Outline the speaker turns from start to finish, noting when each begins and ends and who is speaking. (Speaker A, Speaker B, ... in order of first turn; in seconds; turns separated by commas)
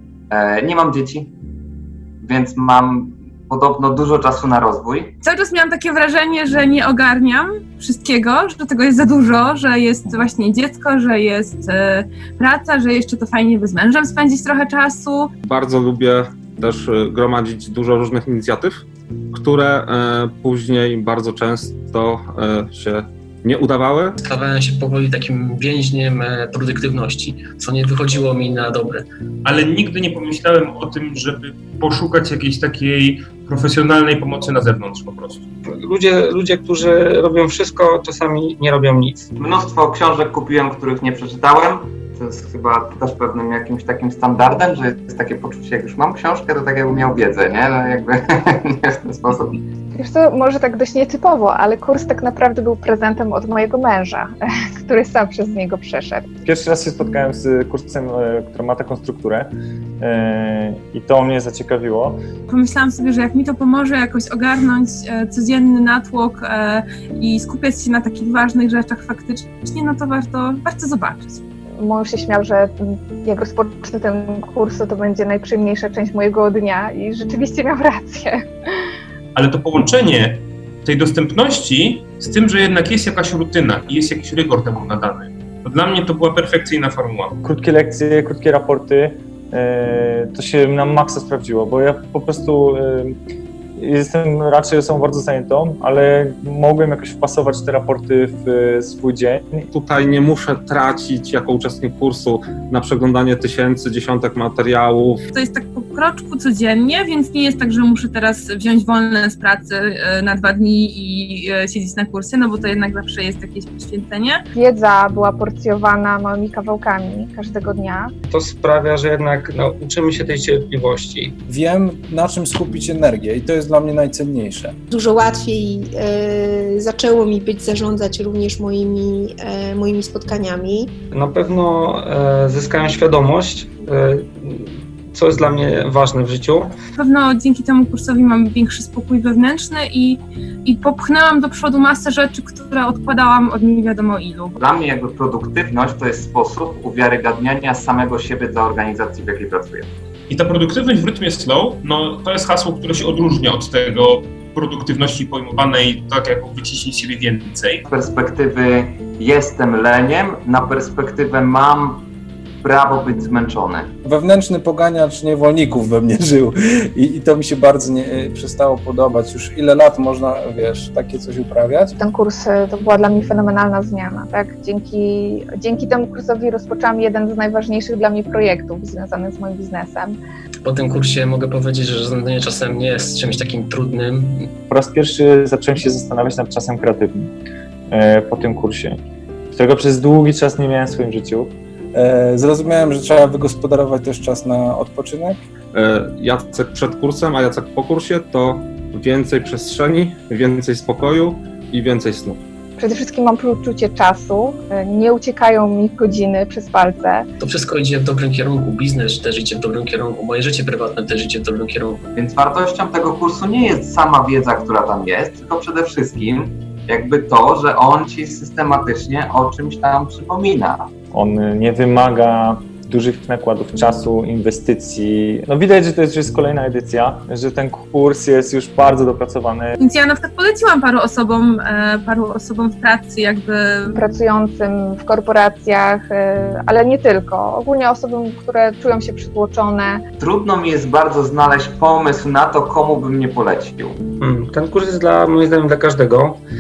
Speaker A: 0.3-1.3, Speaker A: 2.2-5.1, Speaker B: 5.2-15.3, Speaker C: 15.4-24.2, Speaker D: 24.2-29.1, Speaker E: 29.4-35.5, Speaker F: 35.7-39.3, Speaker A: 39.4-49.6, Speaker G: 49.9-56.3, Speaker H: 56.5-62.2, Speaker B: 62.5-71.4, Speaker G: 71.8-78.5, Speaker E: 79.3-87.4, Speaker H: 87.4-93.2, Speaker H: 93.8-99.7, Speaker C: 99.7-105.2, Speaker B: 105.3-114.4, Speaker G: 114.5-118.1, Speaker F: 118.3-121.4, Speaker I: 121.5-124.7, Speaker J: 124.9-130.9, Speaker F: 131.1-136.8, Speaker B: 137.0-144.6, Speaker A: 144.6-149.9, Speaker E: 150.3-157.8, Speaker A: 157.9-162.1, Speaker A: 162.6-163.9, Speaker I: 164.0-172.0, Speaker G: 172.0-180.2, Speaker D: 180.7-184.5, Speaker H: 184.7-187.3, Speaker H: 187.9-189.0, Speaker H: 189.5-191.6, Speaker I: 191.9-195.4, Speaker C: 195.7-202.4, Speaker G: 202.8-207.3, Speaker D: 207.4-212.0, Speaker A: 212.2-220.9, Speaker H: 221.1-229.8, Speaker B: 229.8-233.9, Speaker G: 234.0-240.0, Speaker A: 240.2-244.0, Speaker F: 244.2-246.4